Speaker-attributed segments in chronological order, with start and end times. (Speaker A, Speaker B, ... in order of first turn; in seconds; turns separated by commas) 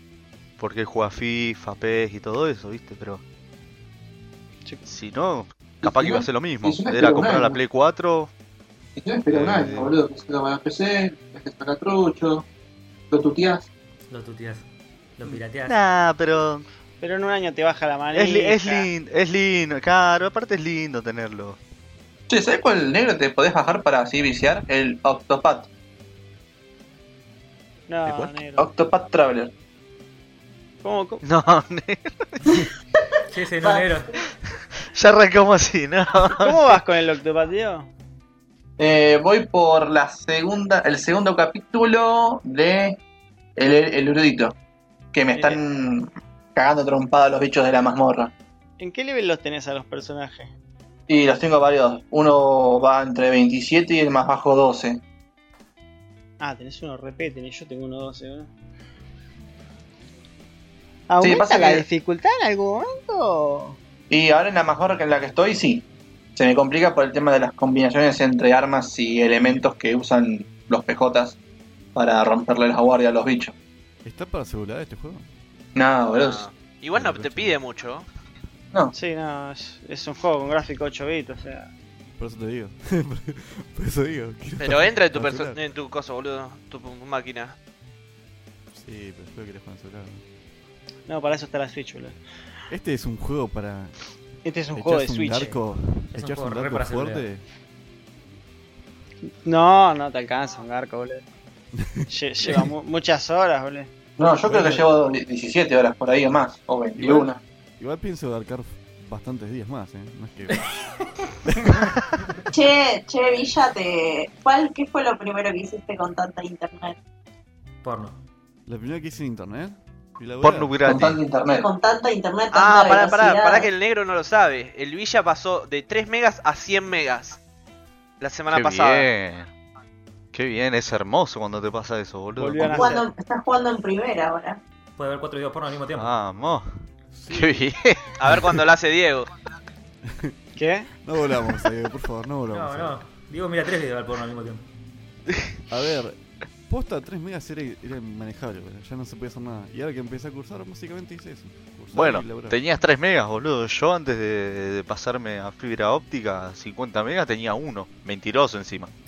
Speaker A: 0.6-3.2, Speaker A: 4.9-8.3, Speaker B: 5.8-7.6, Speaker B: 9.0-12.4, Speaker A: 9.3-9.9, Speaker B: 13.1-13.6, Speaker C: 14.1-14.7, Speaker C: 15.2-15.8, Speaker A: 15.3-16.6, Speaker D: 17.0-18.9, Speaker A: 18.1-21.6, Speaker B: 22.3-25.7, Speaker D: 27.9-28.7, Speaker B: 28.6-29.5, Speaker D: 30.8-31.2, Speaker A: 31.2-32.6, Speaker C: 33.3-34.1, Speaker A: 34.9-36.8, Speaker D: 36.4-37.9, Speaker B: 38.8-43.0, Speaker B: 43.5-44.5, Speaker B: 45.1-48.3, Speaker D: 45.3-45.6, Speaker D: 48.8-50.5, Speaker B: 51.1-55.0, Speaker D: 56.4-58.5, Speaker D: 61.1-63.8, Speaker B: 61.2-61.8, Speaker B: 64.1-65.8, Speaker B: 66.3-71.4, Speaker B: 71.9-73.5, Speaker E: 74.0-75.3, Speaker B: 75.7-76.5, Speaker F: 76.1-78.1, Speaker E: 76.9-77.6, Speaker D: 78.9-81.7, Speaker E: 82.2-85.6, Speaker F: 84.6-87.5, Speaker E: 88.7-90.2, Speaker D: 91.1-92.2, Speaker E: 92.7-93.9, Speaker D: 94.4-95.6, Speaker E: 94.7-97.4, Speaker C: 96.1-97.2, Speaker D: 99.4-101.2, Speaker E: 101.8-102.1, Speaker D: 102.0-103.9, Speaker B: 104.2-107.4, Speaker D: 104.5-104.8, Speaker E: 107.0-110.7, Speaker C: 110.5-111.1, Speaker E: 111.5-111.9, Speaker G: 112.5-117.0, Speaker C: 117.8-118.2, Speaker E: 118.7-120.8, Speaker A: 120.4-121.2, Speaker B: 120.8-121.7, Speaker G: 121.6-123.7, Speaker F: 122.5-127.4, Speaker F: 128.2-129.1, Speaker A: 128.5-129.5, Speaker A: 130.3-132.9, Speaker D: 132.4-133.1, Speaker G: 132.7-134.6, Speaker C: 135.0-136.1, Speaker A: 136.0-138.2, Speaker E: 137.1-137.7, Speaker F: 138.2-139.3, Speaker E: 140.0-140.4, Speaker D: 140.6-140.9, Speaker E: 141.0-143.0, Speaker C: 142.5-144.6, Speaker E: 145.7-152.6, Speaker A: 151.9-158.9